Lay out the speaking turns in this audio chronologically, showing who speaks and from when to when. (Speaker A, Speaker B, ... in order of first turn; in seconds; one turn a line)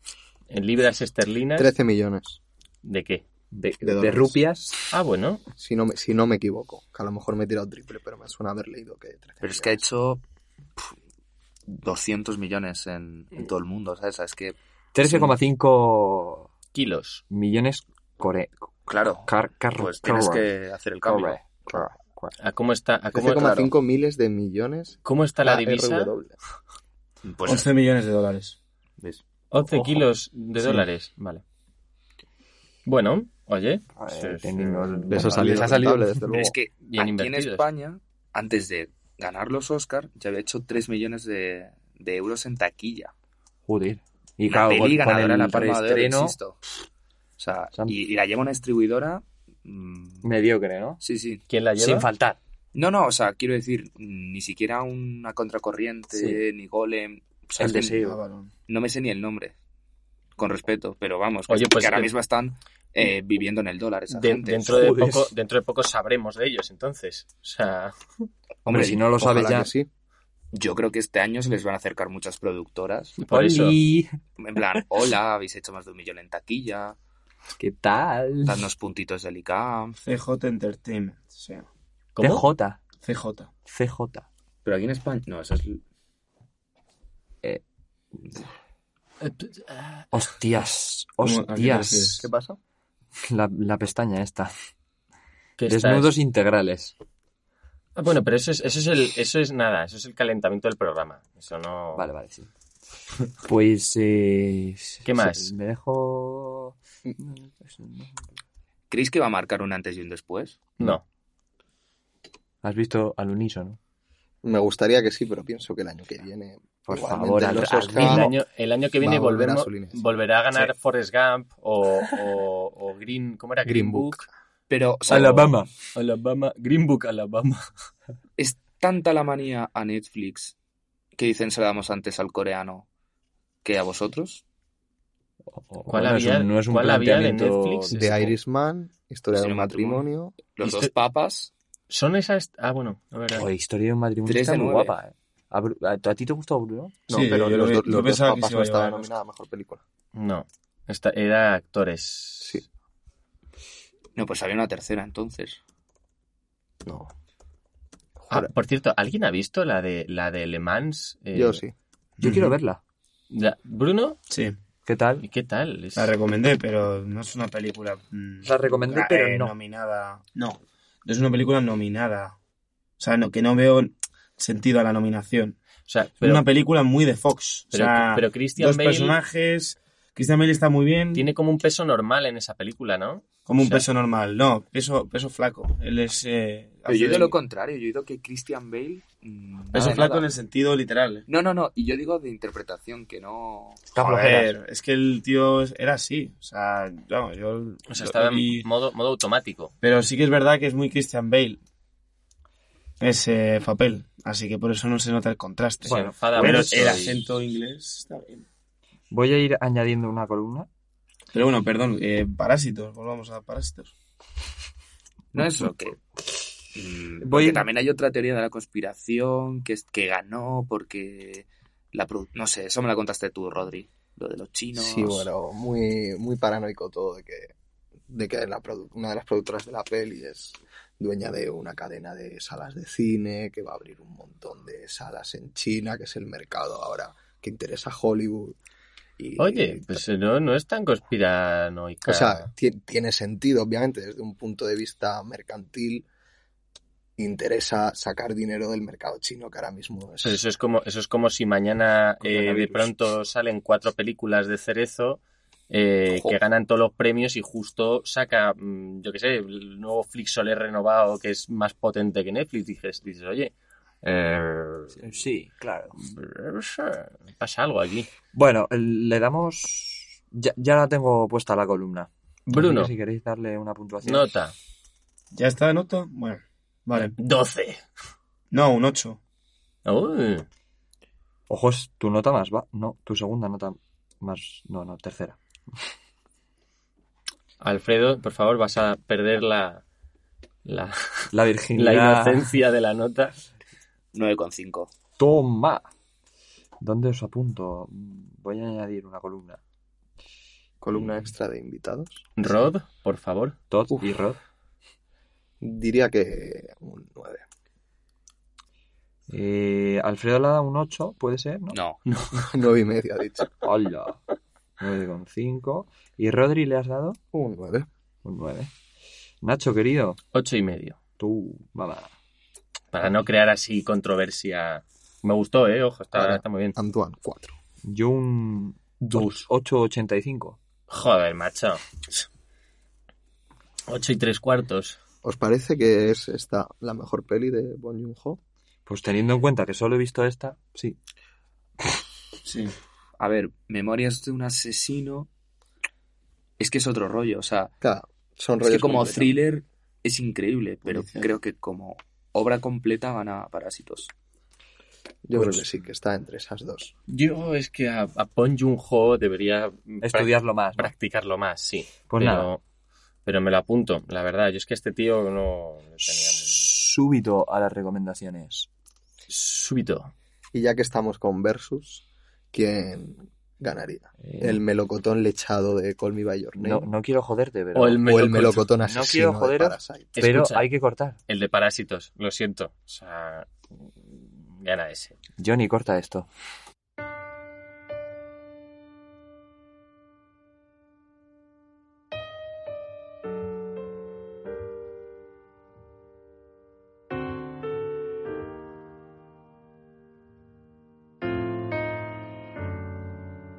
Speaker A: 0.5-1.7
Speaker B: 1.6-2.4
Speaker A: 2.8-3.2
Speaker C: 3.5-4.9
Speaker B: 3.8-4.4
Speaker A: 4.9-5.4
Speaker B: 5.6-9.8
Speaker D: 9.4-10.2
Speaker D: 11.7-15.3
Speaker C: 14.9-16.5
Speaker A: 16.7-17.2
Speaker C: 17.3-18.7
Speaker D: 18.9-21.4
Speaker C: 19.2-20.5
Speaker C: 21.0-22.3
Speaker A: 22.4-23.7
Speaker B: 23.1-26.3
Speaker A: 25.0-26.1
Speaker D: 27.2-27.7
Speaker E: 27.4-28.6
Speaker D: 29.0-29.2
Speaker A: 29.5-31.4
Speaker A: 32.9-35.6
Speaker C: 34.0-36.1
Speaker B: 35.1-36.5
Speaker D: 36.2-43.1
Speaker A: 36.8-37.6
Speaker C: 43.7-46.4
Speaker D: 44.5-46.6
Speaker D: 47.4-50.2
Speaker C: 50.2-51.0
Speaker D: 51.0-51.4
Speaker A: 51.5-52.1
Speaker C: 51.8-52.4
Speaker D: 52.7-58.0
Speaker C: 56.1-56.4
Speaker C: 57.6-58.2
Speaker E: 58.0-58.5
Speaker D: 58.7-59.5
Speaker D: 60.4-64.9
Speaker A: 61.5-62.1
Speaker A: 64.1-67.9
Speaker C: 64.7-65.3
Speaker C: 68.7-69.7
Speaker D: 68.7-69.0
Speaker B: 69.2-69.9
Speaker D: 70.5-73.2
Speaker C: 73.2-74.1
Speaker A: 73.2-73.8
Speaker D: 74.4-77.0
Speaker C: 77.6-78.6
Speaker D: 78.5-80.0
Speaker E: 80.0-81.7
Speaker A: 82.1-82.5
Speaker C: 82.2-82.8
Speaker E: 83.0-83.5
Speaker C: 83.7-84.3
Speaker D: 84.6-85.8
Speaker A: 89.2-90.1
Speaker C: 90.1-92.2
Speaker E: 91.2-92.2
Speaker B: 92.2-92.6
Speaker C: 93.2-94.5
Speaker A: 95.6-96.1
Speaker C: 95.7-96.9
Speaker A: 98.0-102.0
Speaker C: 101.9-102.5
Speaker C: 103.4-108.2
Speaker A: 105.0-105.5
Speaker D: 108.9-110.7
Speaker C: 112.6-113.8
Speaker B: 114.4-118.3
Speaker C: 116.8-118.3
Speaker A: 117.9-124.2
Speaker B: 119.0-120.1
Speaker B: 123.6-124.3
Speaker D: 124.7-125.5
Speaker C: 125.1-125.7
Speaker A: 125.1-125.4
Speaker A: 125.9-127.7
Speaker D: 128.4-130.5
Speaker D: 131.2-132.9
Speaker D: 133.6-134.4
Speaker C: 135.5-138.0
Speaker A: 135.9-138.3
Speaker B: 137.9-140.4
Speaker D: 139.3-141.5
Speaker A: 140.6-140.9
Speaker A: 141.9-143.4
Speaker C: 143.3-147.0
Speaker D: 144.2-144.9
Speaker B: 147.1-149.8
Speaker E: 147.1-149.1
Speaker A: 150.1-152.6
Speaker D: 154.2-155.6
Speaker B: 156.8-157.1
Speaker B: 158.2-158.5
Speaker A: 158.3-161.6
Speaker B: 161.3-161.7
Speaker E: 162.2-162.6
Speaker C: 162.2-162.8
Speaker A: 163.3-164.2
Speaker E: 164.3-164.5
Speaker C: 164.8-165.2
Speaker A: 165.2-166.1
Speaker E: 165.9-172.3
Speaker C: 168.4-169.5
Speaker E: 173.0-175.6
Speaker A: 175.9-176.4
Speaker E: 176.2-181.3
Speaker A: 177.7-179.2
Speaker A: 181.1-183.9
Speaker E: 183.4-187.3
Speaker D: 186.8-190.3
Speaker E: 189.7-191.2
Speaker D: 191.3-194.5
Speaker E: 193.9-198.7
Speaker C: 194.0-194.5
Speaker A: 197.9-199.7
Speaker E: 199.8-201.6
Speaker E: 203.0-208.4
Speaker C: 205.8-207.2
Speaker A: 205.9-207.2
Speaker C: 209.1-210.7
Speaker E: 211.3-213.9
Speaker D: 215.3-216.0
Speaker D: 216.7-225.3
Speaker C: 217.2-217.7
Speaker B: 224.8-227.5
Speaker B: 228.1-238.6
Speaker B: 239.2-240.0
Speaker A: 239.4-242.5
Speaker B: 242.1-246.1
Speaker B: 247.2-250.4
Speaker A: 250.2-265.1
Speaker C: 252.2-252.9
Speaker D: 256.1-256.4
Speaker C: 265.0-266.0
Speaker A: 266.0-268.1
Speaker C: 268.3-274.3
Speaker A: 272.5-272.9
Speaker A: 274.0-274.5
Speaker E: 275.3-277.1
Speaker A: 276.9-277.8
Speaker E: 278.5-279.2
Speaker A: 279.8-280.4
Speaker C: 281.5-285.4
Speaker A: 287.6-289.8
Speaker A: 290.6-293.4
Speaker C: 291.3-292.5
Speaker D: 294.1-294.9
Speaker C: 295.2-295.9
Speaker C: 296.8-299.6
Speaker B: 300.8-302.3
Speaker A: 302.4-303.6
Speaker C: 303.7-304.4
Speaker B: 305.6-307.4
Speaker C: 309.3-311.8
Speaker D: 311.7-312.0
Speaker A: 312.1-312.5
Speaker B: 312.3-313.5
Speaker C: 313.6-314.2
Speaker C: 314.8-317.2
Speaker B: 317.3-317.9
Speaker C: 318.2-318.7
Speaker C: 319.4-320.2
Speaker A: 320.3-321.0
Speaker C: 321.2-322.1
Speaker A: 322.9-326.8
Speaker B: 326.1-327.5
Speaker C: 327.8-330.6
Speaker A: 329.0-329.5
Speaker A: 330.9-331.9
Speaker A: 333.9-335.0
Speaker B: 335.2-338.4
Speaker C: 338.9-341.0
Speaker E: 342.4-342.7
Speaker D: 343.2-345.3
Speaker D: 346.6-347.7
Speaker B: 347.8-349.4
Speaker D: 348.6-354.1
Speaker E: 350.9-351.2
Speaker B: 355.2-356.9
Speaker A: 357.1-362.6
Speaker C: 360.0-360.9
Speaker C: 362.1-362.5
Speaker A: 363.2-366.7
Speaker C: 366.1-368.7
Speaker A: 369.3-370.1
Speaker B: 370.5-376.9
Speaker C: 374.2-374.6
Speaker C: 376.6-378.0
Speaker A: 377.7-378.7
Speaker B: 378.0-380.1
Speaker C: 378.8-381.2
Speaker A: 380.1-380.7
Speaker A: 381.3-383.5
Speaker A: 384.1-385.2
Speaker C: 385.4-386.3